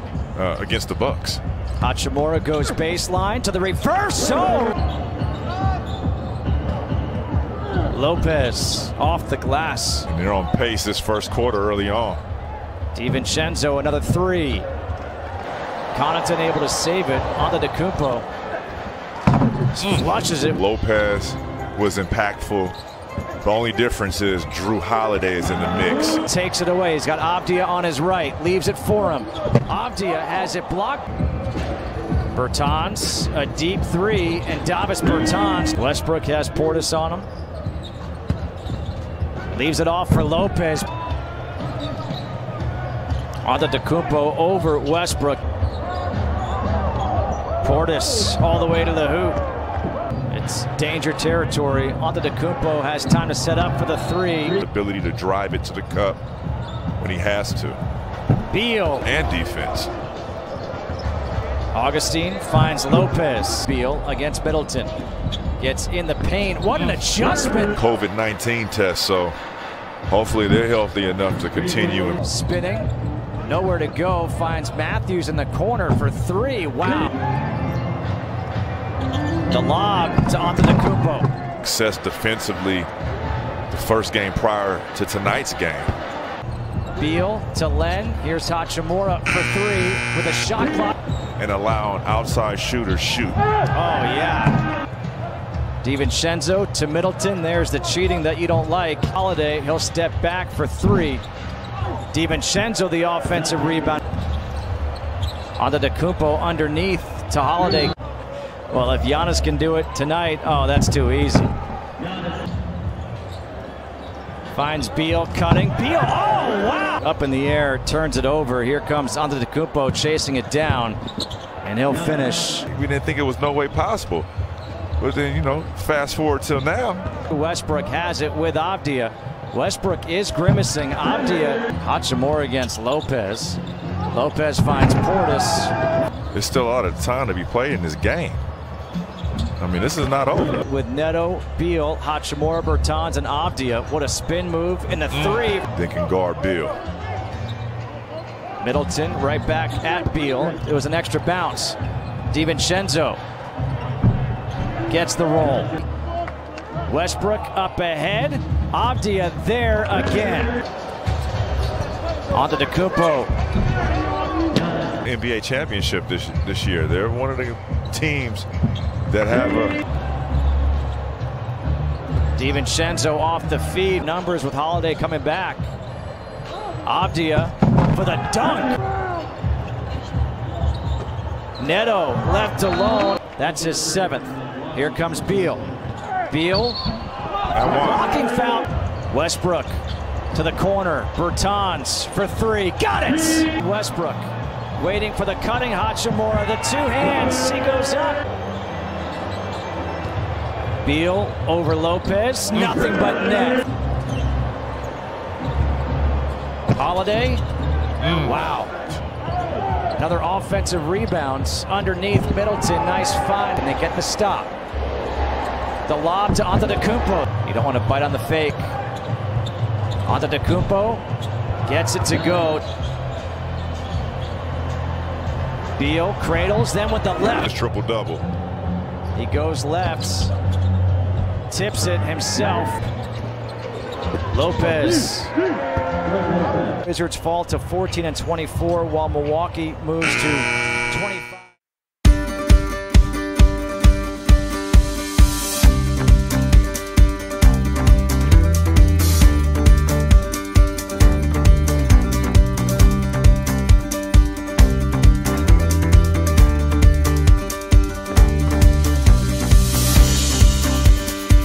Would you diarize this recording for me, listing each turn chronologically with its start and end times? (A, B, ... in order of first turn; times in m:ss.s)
0:00.3-0:01.4 A
0:01.8-0:04.8 B
0:07.9-0:10.1 B
0:10.1-0:12.2 A
0:12.9-0:14.6 B
0:15.9-0:18.2 B
0:19.8-0:20.6 B
0:19.8-0:22.7 A
0:23.4-0:26.2 A
0:26.2-0:31.1 B
0:32.3-0:37.3 B
0:39.5-0:40.9 B
0:43.4-0:45.4 B
0:47.6-0:49.4 B
0:50.3-0:54.6 B
0:54.6-0:56.2 A
0:57.0-0:57.8 A
0:58.5-0:59.1 B
0:59.0-0:59.9 A
1:01.7-1:04.9 B
1:05.6-1:07.7 B
1:07.7-1:09.4 A
1:10.1-1:12.2 A
1:12.2-1:12.9 B
1:13.4-1:17.1 B
1:19.5-1:21.3 B
1:21.6-1:22.9 A
1:23.7-1:25.9 A
1:27.0-1:30.9 B
1:31.4-1:33.4 A
1:33.7-1:34.6 B
1:35.8-1:41.2 B
1:42.1-1:44.0 B
1:45.6-1:47.9 B
1:48.7-1:51.5 B
1:54.5-2:01.0 B
2:01.6-2:02.7 B
2:02.7-2:04.3 A
2:05.0-2:07.1 A
2:07.3-2:15.7 B
2:16.3-2:18.4 A
2:19.6-2:20.6 A
2:20.6-2:25.6 B
2:25.1-2:26.7 A
2:28.6-2:31.8 B
2:32.3-2:33.2 B
2:34.9-2:35.8 B
2:36.9-2:40.5 B
2:42.3-2:43.3 B
2:45.0-2:48.5 A
2:49.0-2:49.8 A
2:52.4-2:55.7 B
2:56.8-2:58.8 B
3:01.6-3:05.7 B
3:06.3-3:06.8 B
3:07.5-3:08.0 A
3:07.6-3:09.8 B
3:10.3-3:18.2 B
3:20.8-3:23.6 B
3:26.7-3:27.4 B
3:28.0-3:28.4 A
3:28.2-3:28.7 B
3:30.0-3:34.5 B
3:35.8-3:38.7 B
3:40.0-3:41.0 B
3:41.6-3:42.6 B
3:45.8-3:47.5 B
3:47.4-3:48.2 A
3:49.1-3:50.3 B
3:51.5-3:52.8 B
3:54.3-3:55.3 B
3:56.8-4:01.5 B